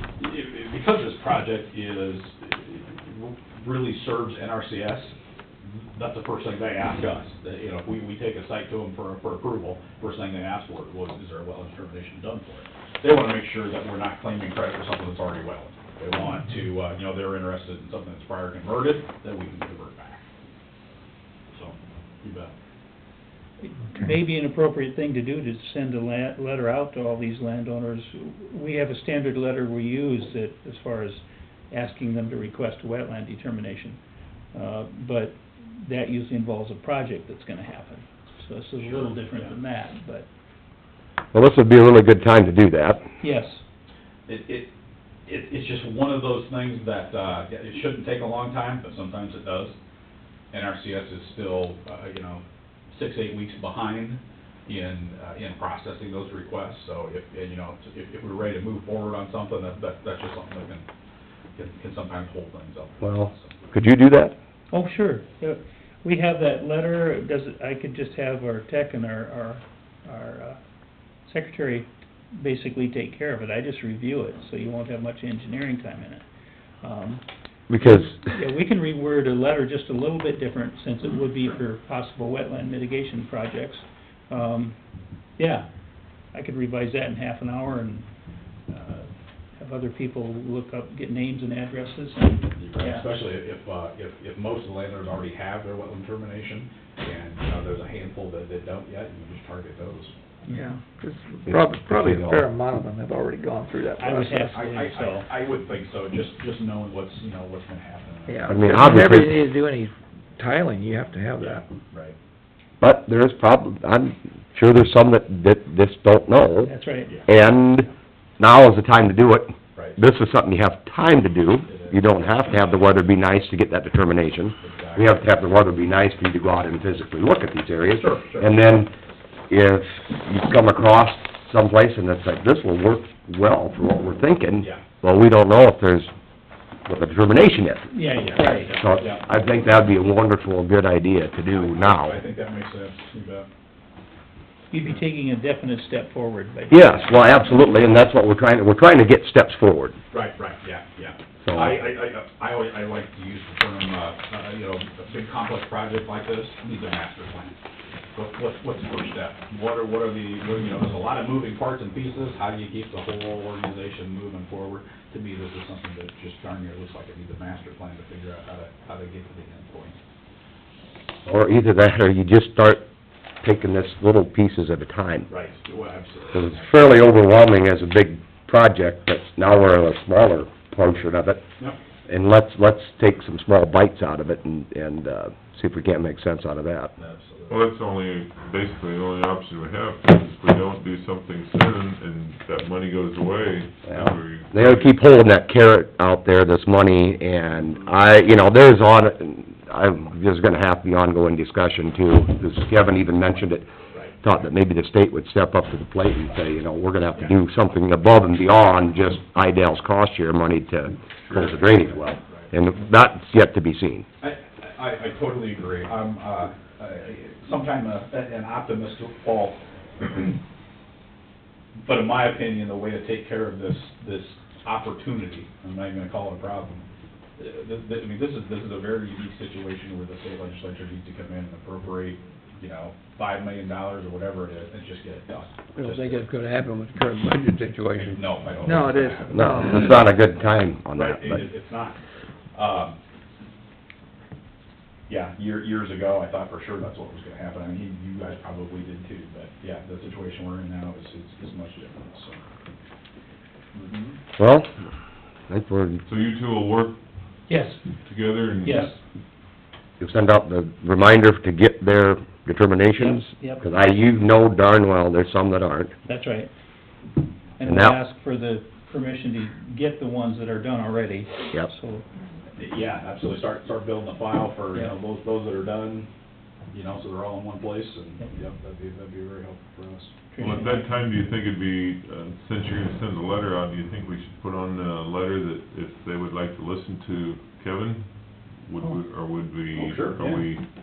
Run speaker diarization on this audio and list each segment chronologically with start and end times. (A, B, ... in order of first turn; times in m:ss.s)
0:00.2-0:05.1 A
0:06.0-0:20.2 A
0:21.5-0:22.5 A
0:23.6-0:34.0 B
0:34.5-0:40.3 B
0:38.8-0:39.5 A
0:41.3-0:43.1 C
0:43.2-0:43.6 B
0:44.3-0:44.7 A
0:45.3-0:49.8 A
0:50.5-1:00.8 A
1:01.6-1:03.7 A
1:03.0-1:04.4 C
1:04.7-1:10.6 B
1:11.3-1:16.2 B
1:16.8-1:17.2 B
1:17.7-1:18.2 C
1:17.8-1:24.8 B
1:25.4-1:25.7 B
1:26.3-1:28.1 B
1:28.7-1:33.2 B
1:32.6-1:40.1 A
1:40.5-1:40.8 B
1:40.5-1:44.6 D
1:41.5-1:42.4 C
1:44.0-1:45.3 B
1:44.5-1:48.8 A
1:48.3-1:51.6 D
1:48.5-1:49.3 C
1:51.4-1:52.2 A
1:52.8-2:08.9 C
1:56.6-1:57.1 B
2:01.7-2:02.9 A
2:04.6-2:05.2 A
2:07.9-2:08.6 A
2:09.5-2:16.1 C
2:16.9-2:17.9 C
2:17.9-2:18.7 B
2:18.1-2:19.3 A
2:18.4-2:22.2 C
2:21.5-2:23.5 A
2:24.7-2:27.5 B
2:26.7-2:30.0 C
2:30.1-2:37.6 A
2:31.4-2:31.8 C
2:38.2-2:50.0 A
2:51.3-2:52.8 C
2:53.4-2:55.3 C
2:55.3-2:56.7 A
2:56.3-3:01.4 C
3:02.1-3:06.9 C
3:07.0-3:07.6 A
3:07.5-3:14.9 E
3:13.9-3:23.7 C
3:24.2-3:34.0 C
3:31.4-3:32.5 A
3:34.2-3:40.4 A
3:41.8-3:46.8 A
3:47.4-3:56.2 A
3:55.8-4:00.0 D
3:58.1-4:00.0 A
3:59.3-4:01.4 C
4:00.9-4:02.0 A
4:02.5-4:03.0 A
4:05.1-4:12.4 A
4:13.8-4:14.2 A
4:14.4-4:14.7 C
4:15.5-4:16.0 C
4:16.1-4:17.0 E
4:17.5-4:17.8 B
4:18.0-4:19.0 E
4:18.6-4:19.0 B
4:20.0-4:25.9 C
4:23.0-4:23.6 B
4:26.0-4:26.5 B
4:27.6-4:32.0 B
4:27.6-4:28.0 C
4:32.6-4:36.1 A
4:36.7-4:40.1 A
4:40.3-4:40.9 B
4:40.4-4:50.6 E
4:49.8-4:50.4 A